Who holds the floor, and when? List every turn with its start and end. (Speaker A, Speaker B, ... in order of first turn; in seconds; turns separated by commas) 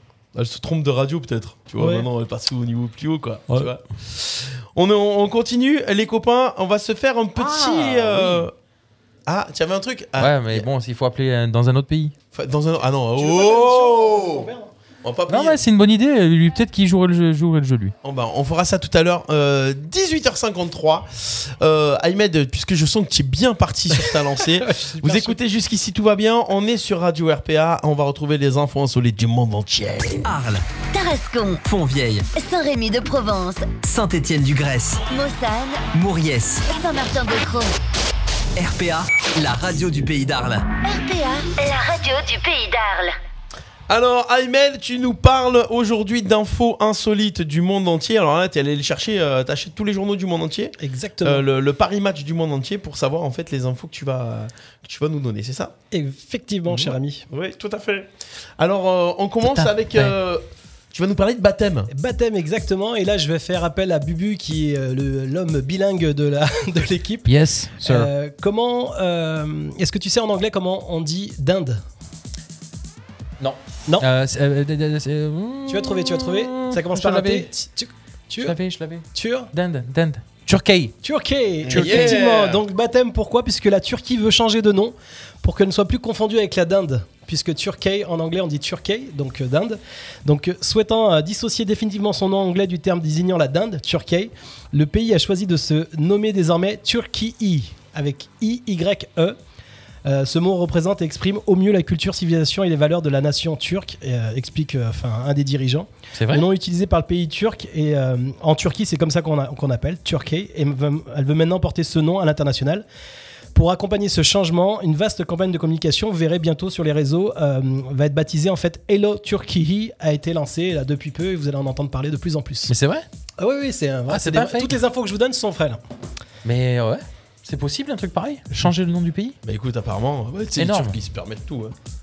Speaker A: 0.3-8.5, Speaker B: 1.8-2.1, Speaker B: 7.4-8.0, Speaker C: 7.9-8.3, Speaker A: 9.3-10.7, Speaker C: 10.2-12.1, Speaker A: 12.3-14.5, Speaker B: 13.2-14.7, Speaker A: 15.0-15.6, Speaker C: 15.3-17.9, Speaker A: 18.0-30.3, Speaker B: 23.9-25.4, Speaker D: 30.2-30.7, Speaker E: 30.9-31.6, Speaker D: 31.6-32.3, Speaker E: 32.3-33.8, Speaker D: 33.8-35.0, Speaker E: 35.1-35.9, Speaker D: 35.9-36.6, Speaker E: 36.7-37.7, Speaker D: 38.5-40.7, Speaker E: 40.8-43.1, Speaker A: 43.9-55.7, Speaker B: 50.8-51.5, Speaker B: 55.9-57.3, Speaker A: 56.7-61.9, Speaker C: 59.4-60.2, Speaker B: 61.9-67.3, Speaker C: 67.3-68.1, Speaker B: 67.8-71.8, Speaker C: 73.4-77.5, Speaker B: 75.7-78.6, Speaker C: 78.4-81.0, Speaker B: 79.1-79.5, Speaker B: 81.0-99.4, Speaker A: 81.6-82.6, Speaker C: 81.7-82.2, Speaker B: 100.0-112.8, Speaker C: 106.2-106.5, Speaker B: 113.5-122.7, Speaker C: 122.7-123.0, Speaker B: 123.4-125.8, Speaker C: 124.1-124.8, Speaker C: 126.4-129.4, Speaker A: 129.4-131.7, Speaker C: 130.6-130.9